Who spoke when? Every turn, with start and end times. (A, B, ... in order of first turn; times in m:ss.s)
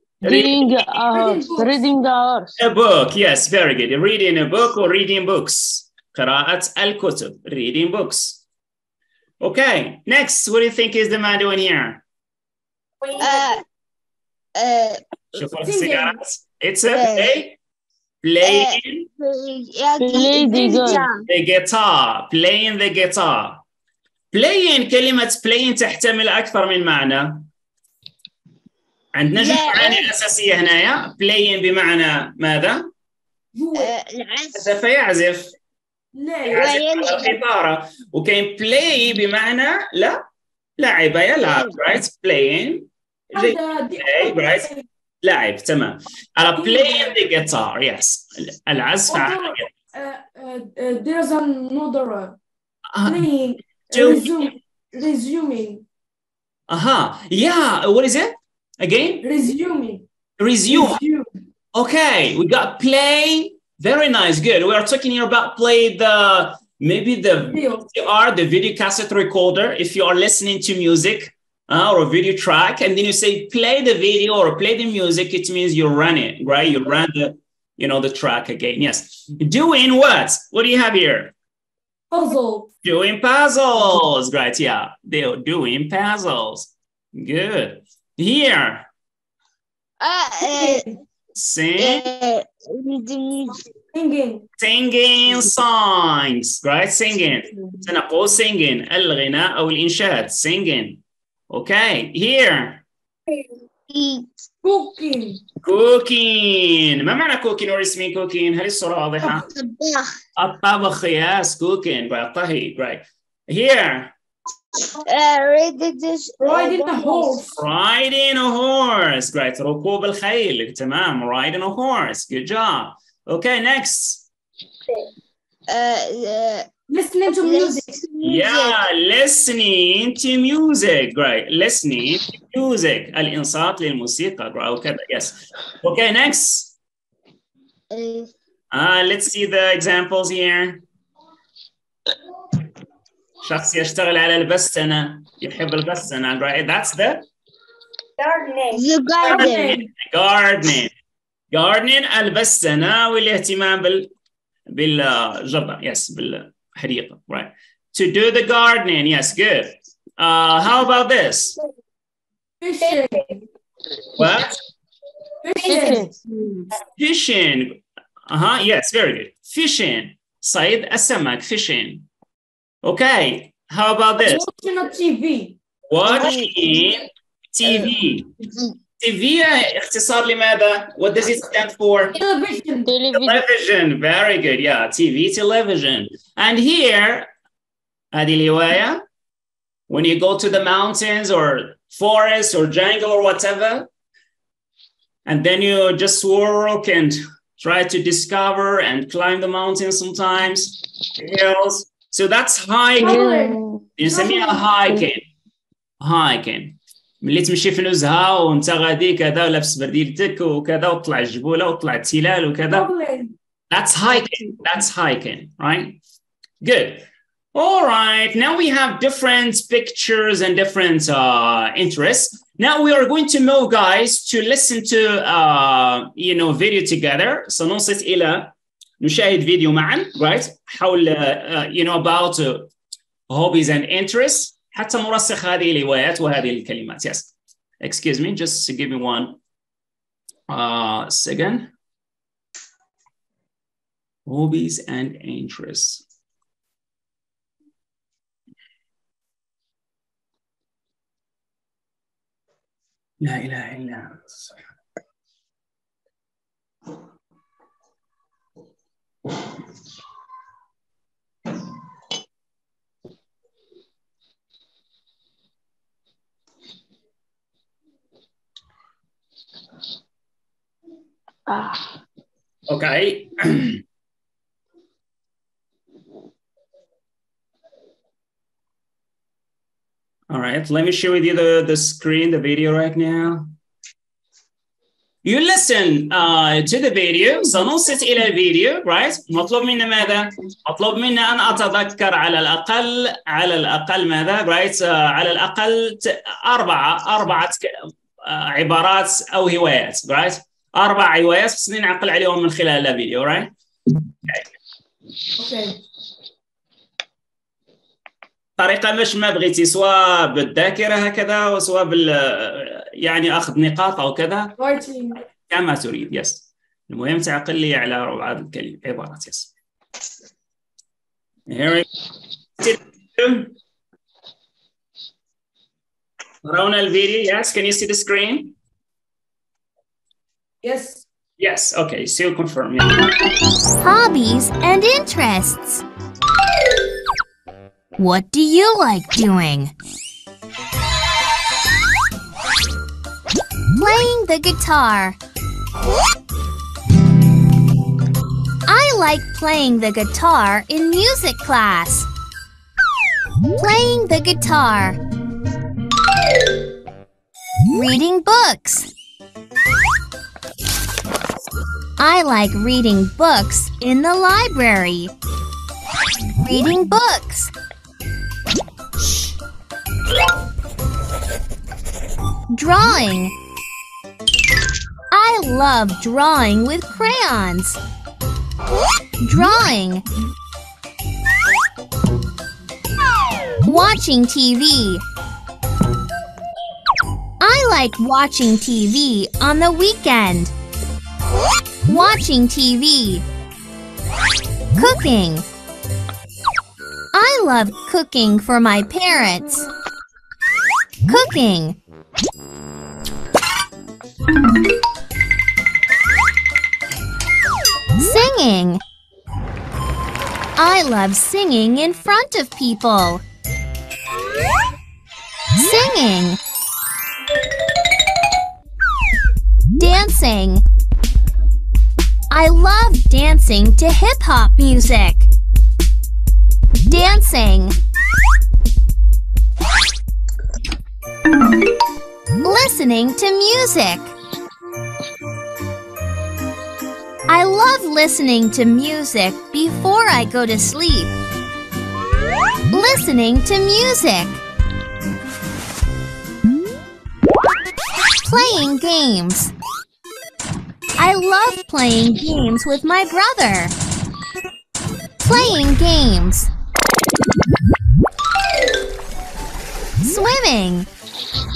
0:00.2-0:01.0 A
0:00.2-0:02.5 B
0:01.1-0:01.8 C
0:02.6-0:08.4 A
0:09.4-0:12.0 A
0:13.0-0:13.6 D
0:13.2-0:13.6 E
0:14.6-0:15.4 E
0:15.4-0:17.6 A
0:15.6-0:16.1 C
0:16.9-0:17.4 E
0:18.2-0:19.1 A
0:18.4-0:21.2 E
0:20.0-0:21.1 B
0:21.3-0:23.6 A
0:24.3-0:27.5 A
0:29.1-0:32.8 A
0:29.3-0:30.1 E
0:33.5-0:33.9 C
0:33.8-0:34.8 E
0:34.6-0:35.5 A
0:36.2-0:36.8 C
0:36.5-0:37.4 E
0:36.5-0:40.2 A
0:40.8-0:44.7 A
0:43.4-0:44.8 C
0:45.2-0:49.7 A
0:46.6-0:47.2 C
0:49.1-0:52.4 C
0:52.9-0:53.3 A
0:53.0-0:55.8 C
0:53.9-0:54.4 A
0:56.7-0:59.2 A
0:59.2-1:00.0 C
1:00.4-1:01.0 A
1:00.7-1:01.3 C
1:01.7-1:21.3 A
1:07.5-1:07.9 C
1:22.1-1:22.7 C
1:22.8-1:28.9 A
1:30.0-1:30.9 E
1:30.4-1:30.9 C
1:31.4-1:32.0 A
1:31.8-1:33.6 E
1:33.9-1:34.5 C
1:34.6-1:42.8 A
1:43.9-1:44.4 E
1:44.6-1:45.4 C
1:45.6-1:49.5 A
1:49.3-1:50.1 E
1:50.4-1:54.1 A
1:55.0-1:57.4 E
1:56.4-1:57.6 C
1:57.6-2:04.2 A
2:05.7-2:06.7 E
2:06.9-2:07.9 C
2:07.3-2:08.8 E
2:08.2-2:16.7 A
2:17.9-2:18.3 E
2:18.7-2:20.8 A
2:23.4-2:27.3 A
2:28.2-2:28.9 D
2:28.7-2:29.8 E
2:29.2-2:29.9 C
2:29.3-2:30.9 A
2:31.5-2:34.1 A
2:34.7-2:41.6 A
2:42.6-2:43.4 C
2:42.8-2:43.3 D
2:44.2-2:44.6 A
2:45.4-2:46.0 C
2:45.6-2:46.6 D
2:45.7-2:46.1 B
2:47.0-2:52.1 A
2:52.8-2:54.5 A
2:54.2-2:55.6 C
2:55.9-2:58.3 A
2:56.1-2:56.6 E
2:57.6-2:57.9 E
2:59.0-3:02.2 A
3:02.2-3:02.9 C
3:02.9-3:03.4 B
3:03.1-3:07.3 A
3:08.1-3:09.0 A
3:09.9-3:13.9 A
3:15.3-3:23.2 A
3:23.0-3:23.9 B
3:23.0-3:24.6 C
3:24.0-3:25.2 A
3:26.0-3:32.9 A
3:32.7-3:33.4 C
3:33.7-3:36.0 A
3:36.6-3:52.7 A
3:53.3-3:59.4 A
4:00.5-4:01.7 A
4:04.3-4:06.0 A
4:13.2-4:14.6 A
4:31.5-4:32.0 B
4:32.7-4:33.8 A
4:40.3-4:43.5 A
4:45.2-5:03.5 A
5:05.4-5:05.8 C
5:08.6-5:14.6 A
5:14.6-5:15.2 C
5:15.5-5:19.5 A
5:21.5-5:21.9 A
5:22.6-5:23.5 A
5:26.4-5:28.6 A
5:30.6-5:31.0 C
5:31.4-5:33.1 A
5:33.8-5:35.8 F
5:38.0-5:39.7 F
5:43.8-5:45.2 F
5:48.7-5:52.1 F
5:53.6-5:55.0 F
5:57.7-5:58.9 F
6:02.0-6:05.1 F
6:06.4-6:07.5 F
6:12.5-6:13.4 F
6:15.1-6:17.8 F
6:19.2-6:20.0 F
6:23.6-6:25.0 F
6:27.4-6:30.5 F
6:31.9-6:33.2 F
6:34.8-6:35.5 F
6:37.1-6:39.7 F
6:41.1-6:41.8 F
6:48.0-6:48.8 F
6:50.6-6:53.2 F
6:55.6-6:56.4 F
6:59.8-7:00.6 F
7:02.3-7:05.3 F
7:06.9-7:07.8 F
7:12.4-7:14.1 F
7:17.3-7:21.1 F
7:22.7-7:24.4 F
7:28.2-7:29.5 F
7:31.0-7:33.8 F
7:35.2-7:36.5 F
7:40.0-7:40.9 F